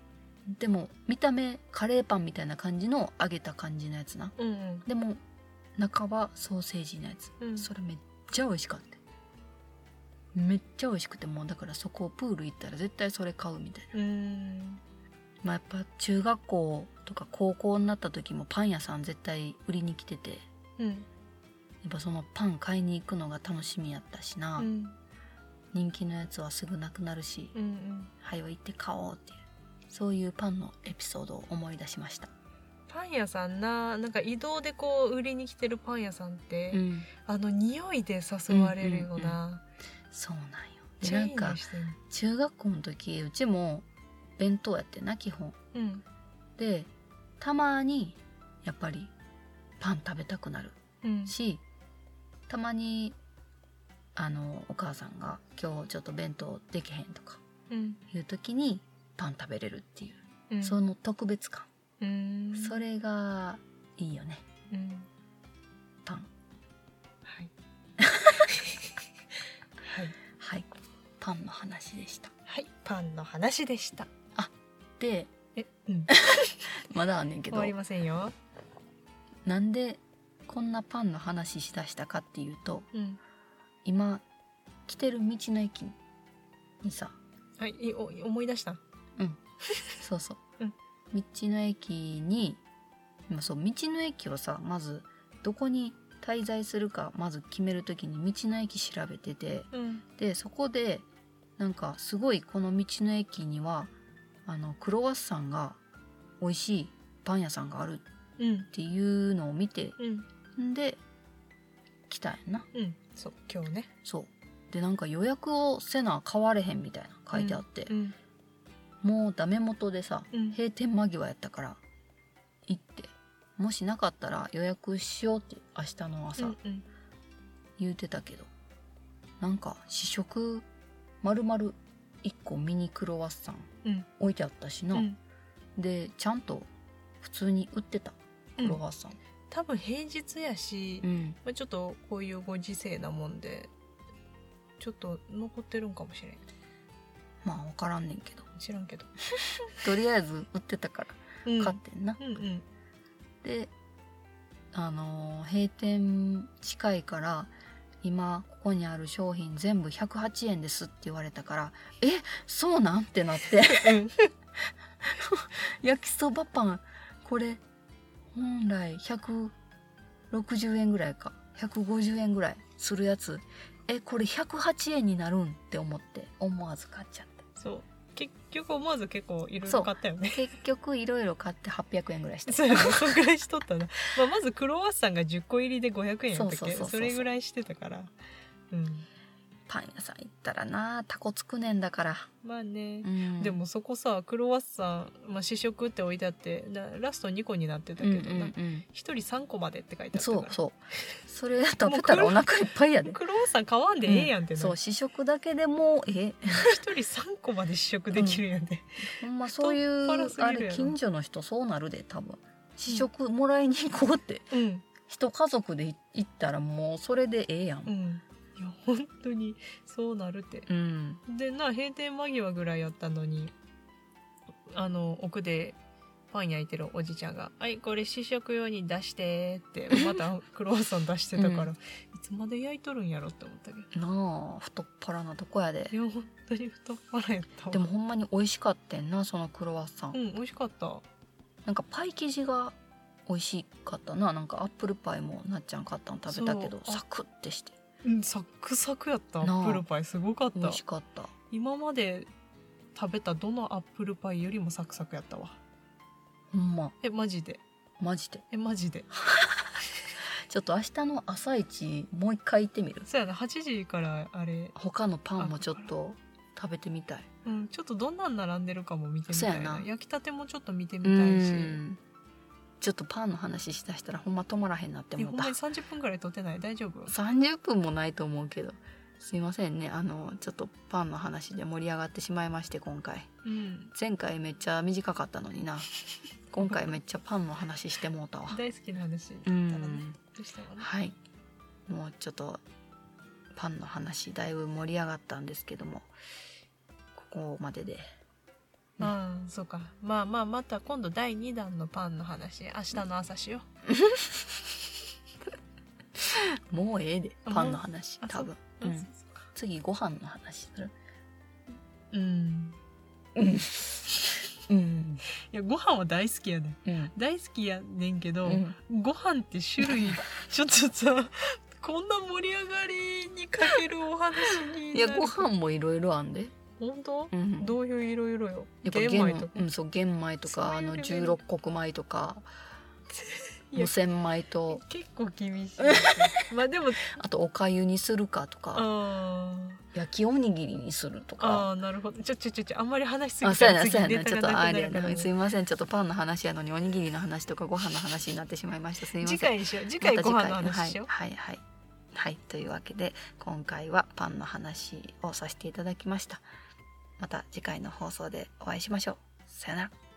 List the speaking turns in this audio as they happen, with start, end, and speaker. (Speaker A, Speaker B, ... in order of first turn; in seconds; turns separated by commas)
Speaker A: 0.5-4.3, Speaker B: 4.4-4.8, Speaker A: 4.8-5.2, Speaker A: 5.8-9.0, Speaker B: 7.4-7.7, Speaker A: 10.3-13.9, Speaker B: 13.9-14.8, Speaker A: 15.4-20.4, Speaker B: 20.8-21.1, Speaker A: 21.8-24.7, Speaker B: 24.6-24.9, Speaker A: 25.7-27.5, Speaker B: 27.5-28.1, Speaker A: 28.2-32.3, Speaker B: 32.9-39.6, Speaker A: 36.7-37.1, Speaker A: 38.5-39.4, Speaker A: 40.1-43.9, Speaker B: 41.0-42.0, Speaker A: 44.4-45.6, Speaker B: 45.7-46.0, Speaker A: 46.6-49.1, Speaker A: 49.8-50.8, Speaker B: 51.0-51.3, Speaker A: 51.3-51.6, Speaker A: 52.5-53.2, Speaker A: 54.1-57.4, Speaker B: 57.7-58.0, Speaker A: 58.1-61.7, Speaker B: 60.5-60.8, Speaker B: 62.0-62.8, Speaker A: 62.5-64.4, Speaker B: 64.7-65.1, Speaker B: 67.2-67.5, Speaker A: 68.0-68.5, Speaker B: 68.5-68.8, Speaker B: 69.8-70.2, Speaker A: 70.3-70.7, Speaker A: 71.2-72.3, Speaker B: 72.5-74.1, Speaker A: 74.3-75.3, Speaker B: 75.5-76.5, Speaker A: 76.2-77.7, Speaker B: 77.5-78.3, Speaker A: 79.4-82.9, Speaker B: 82.9-83.2, Speaker A: 83.8-84.2, Speaker A: 84.9-86.0, Speaker A: 86.8-87.2, Speaker B: 87.6-88.8, Speaker A: 90.0-90.4, Speaker A: 91.1-92.6, Speaker A: 93.3-101.0, Speaker B: 99.7-100.0, Speaker A: 101.6-103.9, Speaker A: 104.5-105.8, Speaker A: 106.4-108.0, Speaker B: 108.4-108.7, Speaker A: 108.7-110.0, Speaker B: 110.0-110.2, Speaker A: 110.5-111.0, Speaker A: 112.1-112.7, Speaker B: 112.7-113.9, Speaker A: 114.0-117.9, Speaker B: 117.3-118.1, Speaker A: 119.0-121.8, Speaker B: 120.3-120.6, Speaker A: 122.7-126.5, Speaker B: 126.4-126.8, Speaker A: 127.8-128.5, Speaker A: 129.4-130.7, Speaker A: 131.2-135.1, Speaker A: 135.8-136.7, Speaker A: 137.2-139.2, Speaker B: 139.5-143.7, Speaker A: 141.0-141.4, Speaker B: 144.8-146.4, Speaker A: 147.4-148.4, Speaker B: 148.6-149.1, Speaker A: 149.7-152.2, Speaker B: 151.4-152.7, Speaker A: 153.4-153.7, Speaker A: 154.7-164.0, Speaker B: 163.6-164.3, Speaker A: 164.7-167.6, Speaker A: 168.3-169.5, Speaker A: 170.3-177.4, Speaker B: 177.6-180.5, Speaker A: 179.7-183.1, Speaker B: 182.5-188.1, Speaker A: 186.3-187.2, Speaker B: 188.7-189.1, Speaker A: 189.7-192.3, Speaker B: 192.4-200.6, Speaker A: 193.0-193.6, Speaker A: 198.0-198.8, Speaker A: 200.1-203.2, Speaker B: 201.8-202.5, Speaker B: 203.0-204.8, Speaker A: 204.1-206.8, Speaker B: 206.5-210.9, Speaker A: 208.1-208.4, Speaker A: 209.1-214.5, Speaker B: 214.5-214.8, Speaker A: 215.0-217.9, Speaker B: 217.8-220.7, Speaker A: 220.7-221.2, Speaker B: 221.2-223.5, Speaker B: 224.7-225.8, Speaker B: 226.3-233.9, Speaker A: 231.3-231.7, Speaker A: 233.9-235.9, Speaker B: 235.9-237.8, Speaker A: 237.7-240.2, Speaker B: 240.1-241.0, Speaker A: 241.6-242.8, Speaker A: 243.3-247.8, Speaker B: 246.3-247.0, Speaker B: 248.0-250.8, Speaker A: 249.4-249.8, Speaker A: 250.5-251.3, Speaker B: 251.5-252.3, Speaker B: 252.9-255.6, Speaker A: 256.5-256.9, Speaker B: 257.0-257.6, Speaker A: 258.0-258.4, Speaker B: 258.5-259.1, Speaker A: 259.1-259.8, Speaker A: 260.5-263.1, Speaker B: 263.1-264.7, Speaker A: 264.7-267.3, Speaker B: 265.4-265.9, Speaker B: 267.4-271.8, Speaker A: 269.3-269.9, Speaker A: 271.0-272.0, Speaker A: 272.8-275.6, Speaker B: 275.2-277.1, Speaker A: 277.1-283.3, Speaker B: 283.4-283.9, Speaker A: 283.9-285.9, Speaker A: 286.5-288.6, Speaker B: 288.5-290.9, Speaker A: 289.4-290.1, Speaker A: 290.8-291.2, Speaker A: 291.9-292.6, Speaker A: 293.5-296.1, Speaker A: 297.1-298.0, Speaker B: 299.0-303.6, Speaker A: 303.9-304.6, Speaker A: 306.2-310.9, Speaker B: 307.4-309.4, Speaker B: 312.1-312.8, Speaker A: 313.3-315.2, Speaker B: 315.4-325.4, Speaker A: 316.8-317.1, Speaker A: 318.4-318.8, Speaker A: 319.8-320.2, Speaker A: 324.9-326.5, Speaker B: 326.8-329.7, Speaker A: 327.3-327.8, Speaker A: 328.8-332.4, Speaker B: 330.5-331.4, Speaker B: 333.1-333.9, Speaker A: 333.8-334.8, Speaker B: 334.7-337.1, Speaker A: 335.8-336.3, Speaker A: 337.0-338.9, Speaker B: 338.7-339.8, Speaker A: 339.9-341.7, Speaker B: 341.4-345.3, Speaker A: 343.4-356.4, Speaker B: 349.2-351.1, Speaker A: 357.2-359.9